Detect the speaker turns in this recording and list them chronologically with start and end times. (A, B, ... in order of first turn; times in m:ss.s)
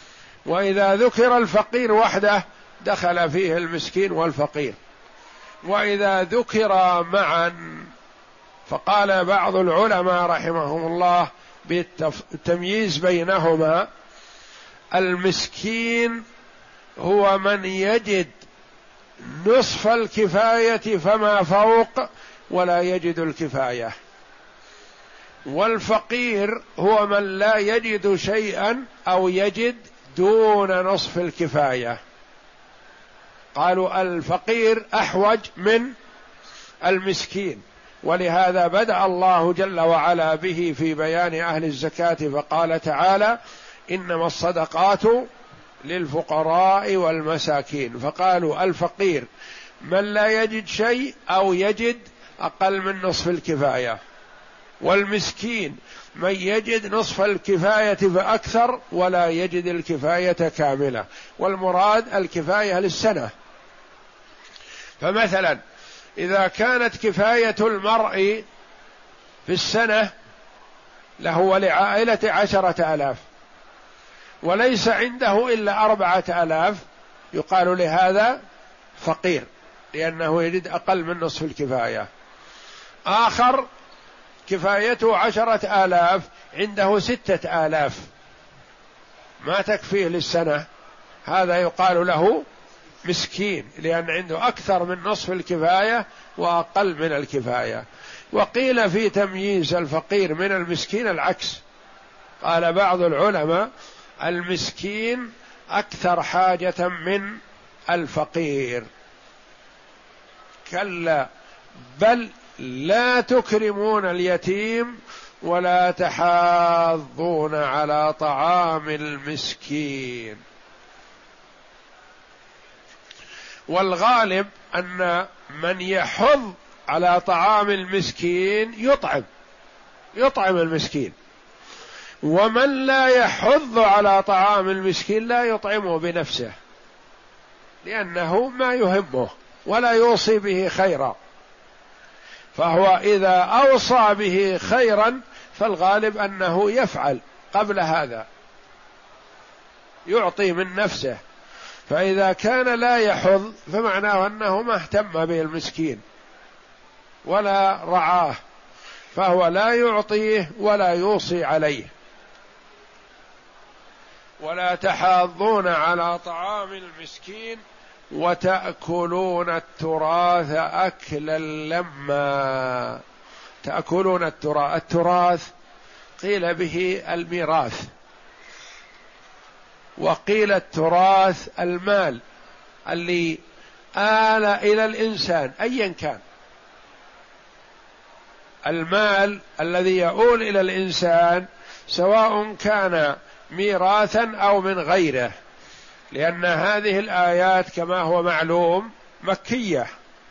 0:00.4-0:04.8 A
0:05.6-0:07.9 A
0:08.7-0:13.9 A
0:14.9-0:16.2 A
0:17.0-0:18.4 A
0:19.2-0:23.9 A
0:25.4-0:32.0 A
0:33.5-0:35.9 A
0:36.8-0:43.4 A
0:43.9-0:45.3 A
0:45.8-0:49.3 A
0:49.8-0:54.0 A
0:54.8-1:03.3 A
1:05.0-1:05.6 A
1:06.2-1:08.4 A
1:09.5-1:10.1 A
1:11.2-1:13.2 A
1:14.4-1:16.8 A
1:17.3-1:18.4 A
1:19.0-1:22.1 A
1:23.1-1:23.6 A
1:24.5-1:28.1 A
1:29.4-1:30.6 A
1:31.2-1:32.4 A
1:33.0-1:41.6 A
1:42.4-1:43.7 A
1:44.2-1:47.4 A
1:47.9-1:48.9 A
1:50.6-1:51.3 A
1:51.9-2:00.4 A
2:03.7-2:09.2 A
2:10.1-2:11.1 A
2:12.2-2:16.5 A
2:17.8-2:21.2 A
2:22.5-2:28.2 A
2:30.0-2:31.2 A
2:31.9-2:36.0 A
2:37.2-2:38.4 A
2:39.1-2:41.9 A
2:44.4-2:53.0 A
2:53.6-2:55.5 A
2:56.2-2:57.9 A
3:00.0-3:02.2 A
3:02.9-3:03.4 A
3:04.0-3:06.2 A
3:08.6-3:15.3 A
3:16.1-3:19.9 A